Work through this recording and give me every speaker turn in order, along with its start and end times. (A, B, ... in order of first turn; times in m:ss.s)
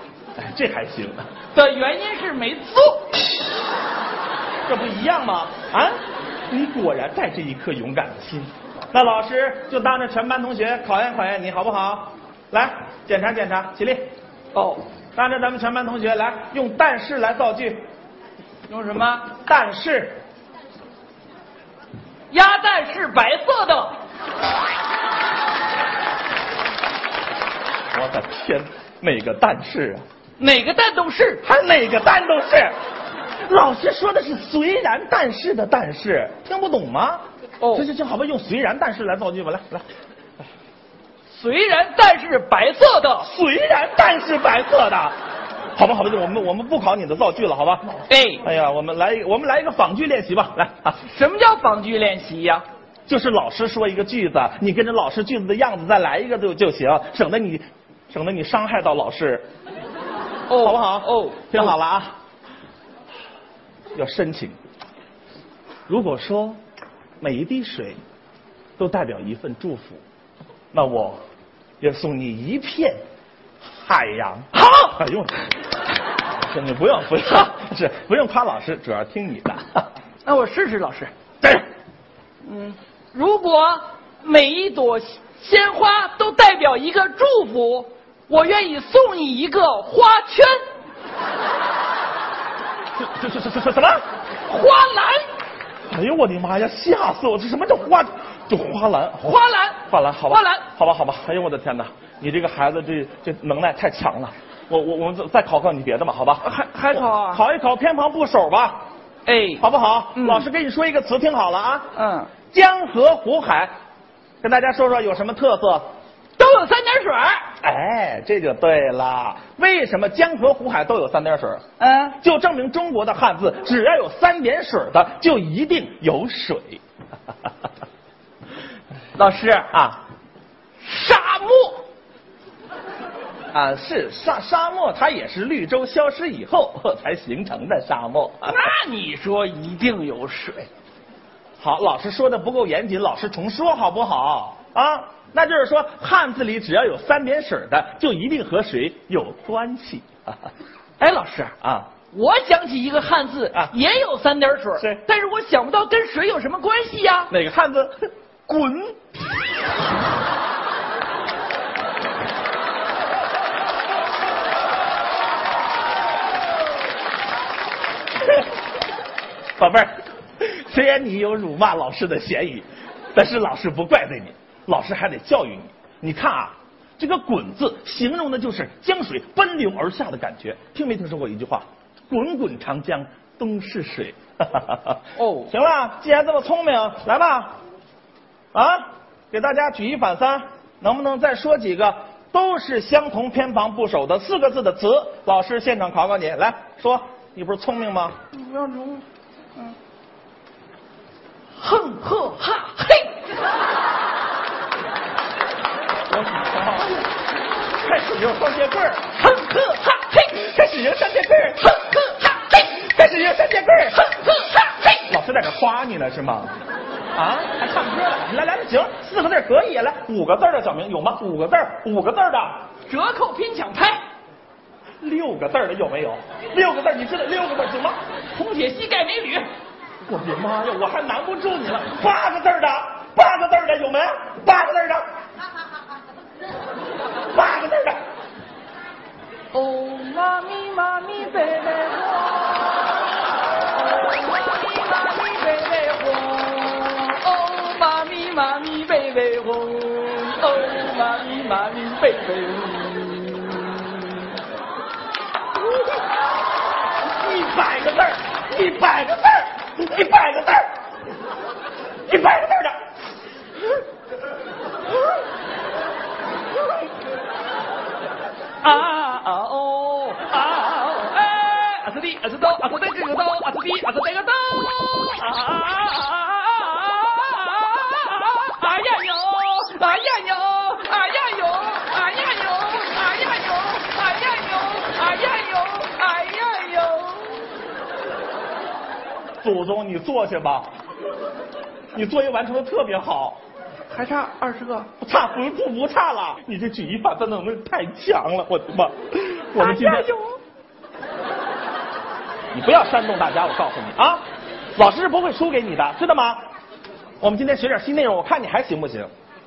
0:00.4-0:01.2 A
0:01.5-0:03.1 B
0:04.7-0:06.0 A
0:06.5-0:14.0 A
0:14.5-0:14.8 B
0:15.1-0:17.8 A
0:18.7-0:19.3 B
0:19.4-0:20.2 A
0:22.3-0:24.0 B
0:27.9-0:30.0 A
0:30.4-0:31.4 B
0:31.4-0:32.7 A
0:33.5-0:39.8 A
0:37.6-0:37.9 B
0:41.3-0:43.3 B
0:43.2-0:45.1 A
0:45.8-0:47.9 A
0:48.1-0:48.4 B
0:48.4-0:51.0 A
0:51.0-0:52.6 B
0:53.1-0:59.4 A
1:00.5-1:01.7 B
1:00.6-1:02.1 A
1:03.9-1:04.6 A
1:05.9-1:06.6 A
1:07.2-1:08.0 A
1:08.8-1:10.0 A
1:10.7-1:11.2 A
1:11.8-1:13.0 A
1:13.8-1:15.5 A
1:14.5-1:15.0 B
1:16.3-1:19.9 A
1:20.2-1:21.1 B
1:22.4-1:30.6 B
1:33.0-1:34.0 A
1:34.4-1:35.2 B
1:35.9-1:48.8 A
1:39.2-1:40.6 B
1:46.4-1:47.4 B
1:49.2-1:50.4 B
1:49.6-1:51.9 A
1:51.9-1:52.3 B
1:52.5-1:53.7 A
1:54.4-1:55.8 A
1:56.4-1:57.5 B
1:57.6-2:01.6 A
2:01.8-2:02.2 B
2:02.2-2:06.8 A
2:09.1-2:09.7 B
2:09.7-2:10.0 A
2:10.8-2:11.8 B
2:13.5-2:18.6 A
2:18.4-2:20.7 B
2:21.6-2:30.3 A
2:31.0-2:37.3 B
2:31.6-2:31.9 A
2:37.3-2:39.1 A
2:49.6-3:07.5 A
3:05.1-3:05.5 B
3:08.5-3:18.2 A
3:18.3-3:19.0 B
3:21.6-3:23.1 B
3:26.1-3:27.1 A
3:27.8-3:29.1 A
3:29.1-3:30.4 B
3:30.3-3:31.6 A
3:31.6-3:32.7 B
3:32.6-3:34.0 A
3:33.9-3:35.0 B
3:35.1-3:36.6 A
3:37.1-3:42.7 A
3:42.9-3:44.0 B
3:45.0-3:48.0 A
3:48.3-3:49.5 B
3:50.0-3:55.0 A
3:57.3-3:58.0 A
3:59.5-4:14.3 B
4:17.2-4:20.7 A
4:22.1-4:22.8 A
4:28.6-4:47.4 B
4:49.4-4:50.7 A
4:51.9-4:53.4 A
4:53.9-4:54.9 B
4:55.0-5:00.1 A
4:59.6-5:00.3 B
5:02.5-5:04.2 A
5:04.8-5:06.4 A
5:07.2-5:09.1 A